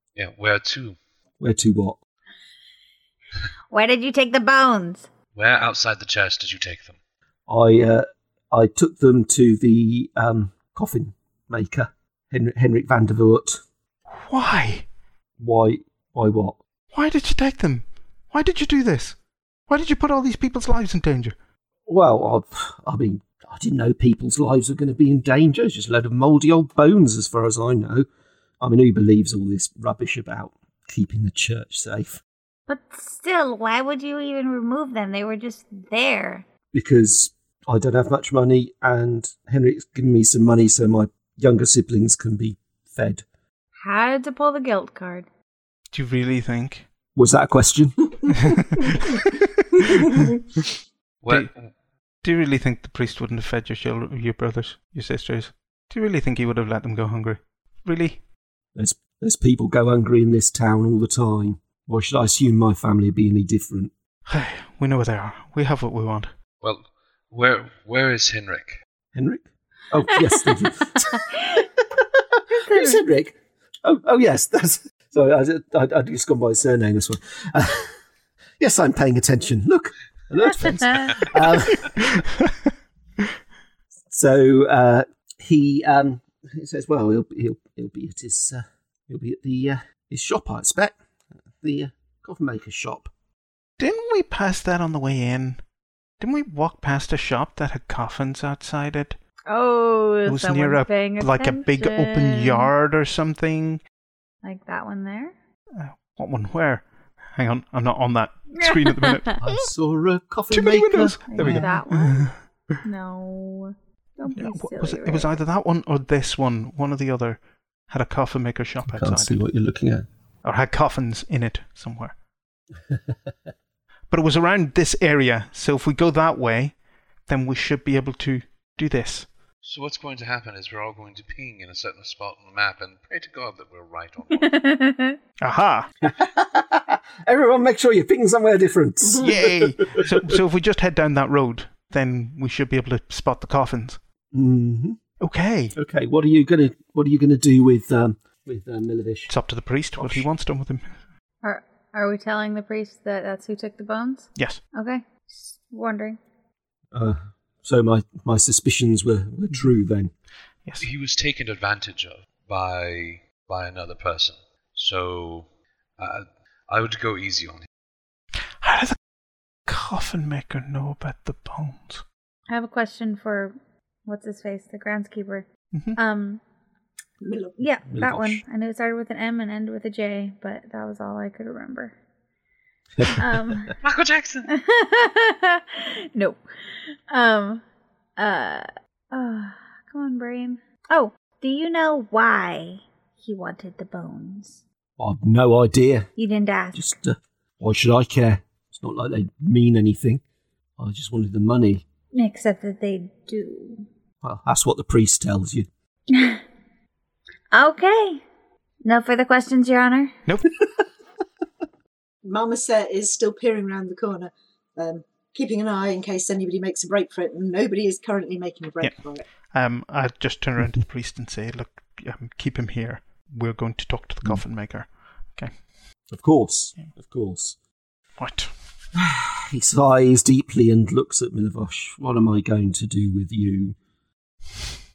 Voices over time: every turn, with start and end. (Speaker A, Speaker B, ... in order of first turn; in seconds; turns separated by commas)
Speaker A: 0.2-1.0, Speaker B: 1.4-2.0, Speaker C: 3.7-5.1, Speaker A: 5.3-7.0, Speaker B: 7.5-13.6, Speaker D: 14.1-14.9, Speaker B: 15.4-16.6, Speaker D: 16.9-19.2, Speaker D: 19.7-21.4, Speaker B: 21.9-28.1, Speaker B: 28.6-32.2, Speaker C: 32.7-36.5, Speaker B: 36.7-43.2, Speaker C: 43.8-45.3, Speaker D: 45.9-46.9, Speaker B: 47.1-48.3, Speaker D: 48.3-50.3, Speaker A: 51.2-51.7, Speaker D: 52.2-58.2, Speaker B: 58.8-63.9, Speaker D: 64.3-66.3, Speaker A: 66.6-68.8, Speaker B: 69.2-71.6, Speaker C: 71.1-71.7, Speaker B: 72.1-77.9, Speaker C: 72.5-73.0, Speaker B: 78.6-82.1, Speaker D: 82.1-82.5, Speaker B: 84.1-91.0, Speaker B: 91.6-93.1, Speaker D: 93.8-95.6, Speaker D: 96.2-99.2, Speaker C: 99.5-102.7, Speaker D: 100.3-103.8, Speaker C: 104.4-105.3, Speaker D: 105.8-109.7, Speaker C: 108.5-109.4, Speaker B: 109.4-111.8, Speaker D: 110.5-112.7, Speaker C: 111.3-112.3, Speaker C: 112.8-115.4, Speaker D: 114.3-119.4, Speaker B: 118.9-120.0, Speaker D: 120.4-122.2, Speaker D: 124.1-129.3, Speaker A: 129.6-134.6, Speaker C: 134.4-135.2, Speaker D: 135.4-135.9, Speaker B: 136.0-140.3, Speaker E: 139.0-139.3, Speaker D: 139.2-144.0, Speaker B: 144.3-145.0, Speaker D: 145.2-145.8, Speaker B: 145.8-149.3, Speaker D: 149.3-151.0, Speaker B: 150.0-150.3, Speaker C: 151.4-156.2, Speaker B: 156.9-160.1, Speaker A: 160.8-165.5, Speaker A: 166.0-167.7, Speaker D: 168.6-169.0, Speaker D: 169.7-172.0, Speaker C: 172.5-173.6, Speaker C: 174.1-176.4, Speaker E: 177.2-177.6, Speaker C: 177.6-181.9, Speaker B: 177.9-178.4, Speaker B: 183.0-183.7, Speaker C: 183.0-183.8, Speaker A: 183.8-184.5, Speaker C: 184.5-186.4, Speaker C: 186.9-187.6, Speaker C: 188.2-194.6, Speaker B: 195.0-196.1, Speaker C: 196.2-196.8, Speaker B: 196.7-200.2, Speaker B: 200.8-201.8, Speaker C: 202.1-203.9, Speaker B: 204.2-205.7, Speaker C: 206.1-206.4, Speaker C: 207.5-208.2, Speaker C: 208.8-210.1, Speaker E: 212.2-219.3, Speaker D: 219.5-225.5, Speaker B: 226.1-227.6, Speaker D: 228.2-228.5, Speaker B: 228.9-233.8